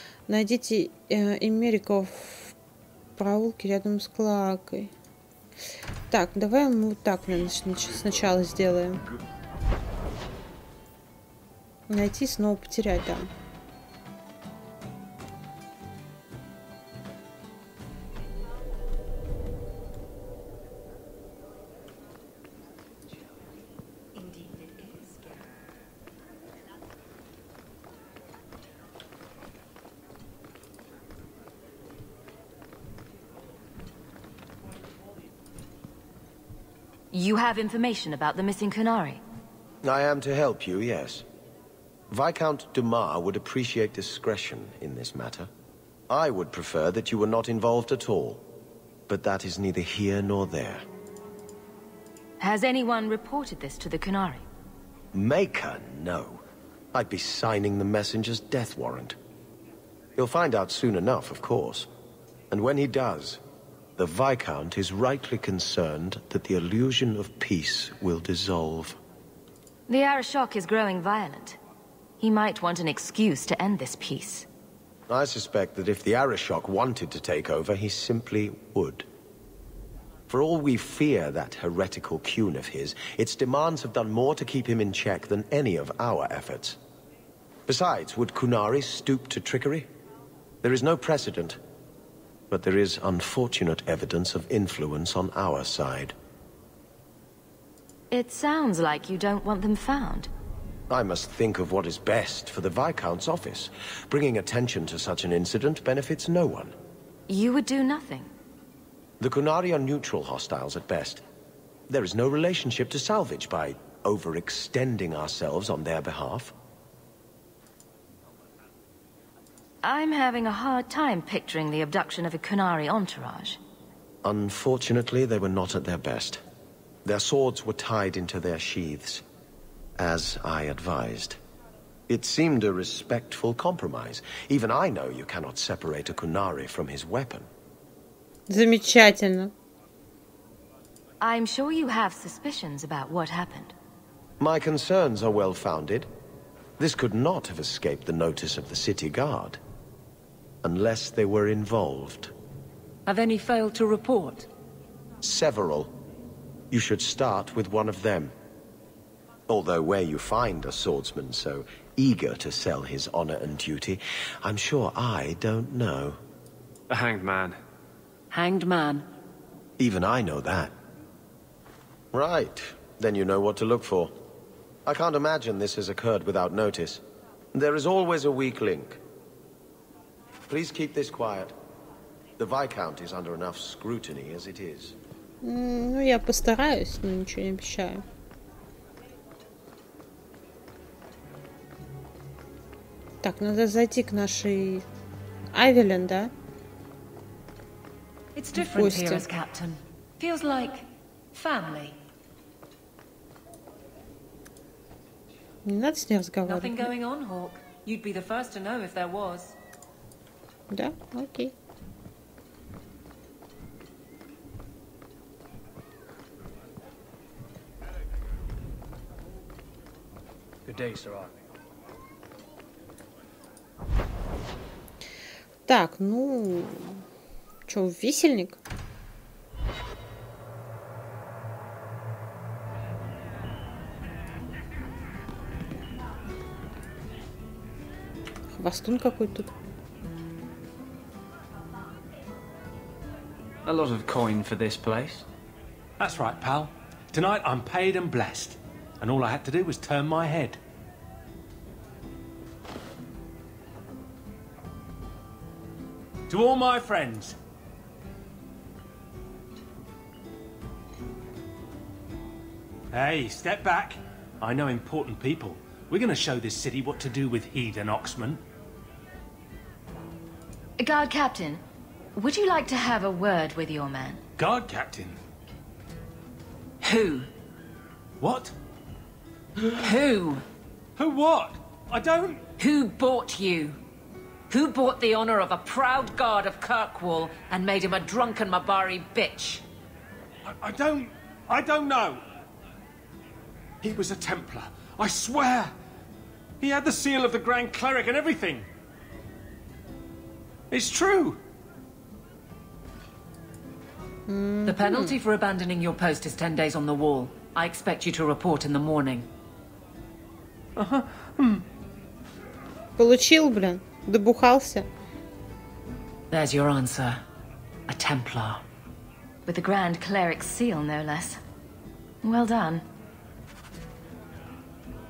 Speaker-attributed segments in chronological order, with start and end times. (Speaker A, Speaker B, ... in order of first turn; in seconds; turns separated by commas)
Speaker A: 0.3-2.5, Speaker A: 3.2-4.9, Speaker A: 6.1-9.0, Speaker A: 11.9-13.3, Speaker B: 37.1-39.2, Speaker C: 39.8-41.2, Speaker C: 42.1-45.5, Speaker C: 46.1-48.4, Speaker C: 49.1-50.8, Speaker B: 52.4-54.5, Speaker C: 55.1-56.4, Speaker C: 56.9-59.2, Speaker C: 60.2-61.9, Speaker C: 62.5-63.4, Speaker C: 64.0-69.0, Speaker B: 69.9-71.6, Speaker B: 72.2-74.5, Speaker C: 75.1-79.1, Speaker C: 80.3-86.8, Speaker C: 87.7-89.9, Speaker C: 90.6-91.6, Speaker C: 92.5-96.1, Speaker B: 98.1-100.3, Speaker C: 100.9-106.7, Speaker B: 107.3-108.3, Speaker C: 109.2-111.2, Speaker C: 111.9-116.5, Speaker B: 119.8-123.6, Speaker C: 124.2-126.4, Speaker C: 127.0-129.2, Speaker C: 130.0-131.4, Speaker C: 132.1-137.5, Speaker A: 138.5-139.5, Speaker B: 141.2-143.7, Speaker C: 144.4-146.1, Speaker C: 146.8-149.6, Speaker C: 150.6-152.3, Speaker D: 153.1-154.5, Speaker C: 155.2-155.9, Speaker C: 156.7-158.3, Speaker C: 159.5-166.2, Speaker E: 166.9-167.6, Speaker D: 168.3-169.1, Speaker C: 169.8-170.7, Speaker C: 172.1-174.1, Speaker C: 174.9-177.0, Speaker C: 177.5-179.0, Speaker C: 180.5-181.5, Speaker C: 182.4-184.9, Speaker A: 185.4-188.0, Speaker A: 193.2-194.8, Speaker A: 195.5-196.3, Speaker D: 198.4-202.0, Speaker A: 198.6-199.2, Speaker A: 205.7-206.9, Speaker D: 206.4-209.6, Speaker A: 210.7-211.5, Speaker E: 220.7-221.3, Speaker A: 225.7-227.0, Speaker A: 227.7-228.6, Speaker A: 238.5-239.5, Speaker E: 243.7-245.2, Speaker F: 246.0-250.6, Speaker F: 256.3-257.4, Speaker F: 262.9-268.4, Speaker B: 270.8-271.6, Speaker B: 272.1-274.2, Speaker F: 274.4-275.2, Speaker D: 276.8-277.3, Speaker F: 278.2-278.5, Speaker D: 279.8-280.4, Speaker F: 281.0-282.4, Speaker D: 282.6-283.8, Speaker D: 284.5-289.6, Speaker F: 290.5-292.2, Speaker F: 293.8-295.7, Speaker F: 296.6-298.7, Speaker F: 300.7-301.4, Speaker A: 304.3-305.2, Speaker D: 304.7-309.3, Speaker F: 310.8-311.6, Speaker A: 313.0-314.9, Speaker D: 316.3-317.2, Speaker D: 317.9-318.6, Speaker B: 319.5-321.4, Speaker B: 322.2-322.9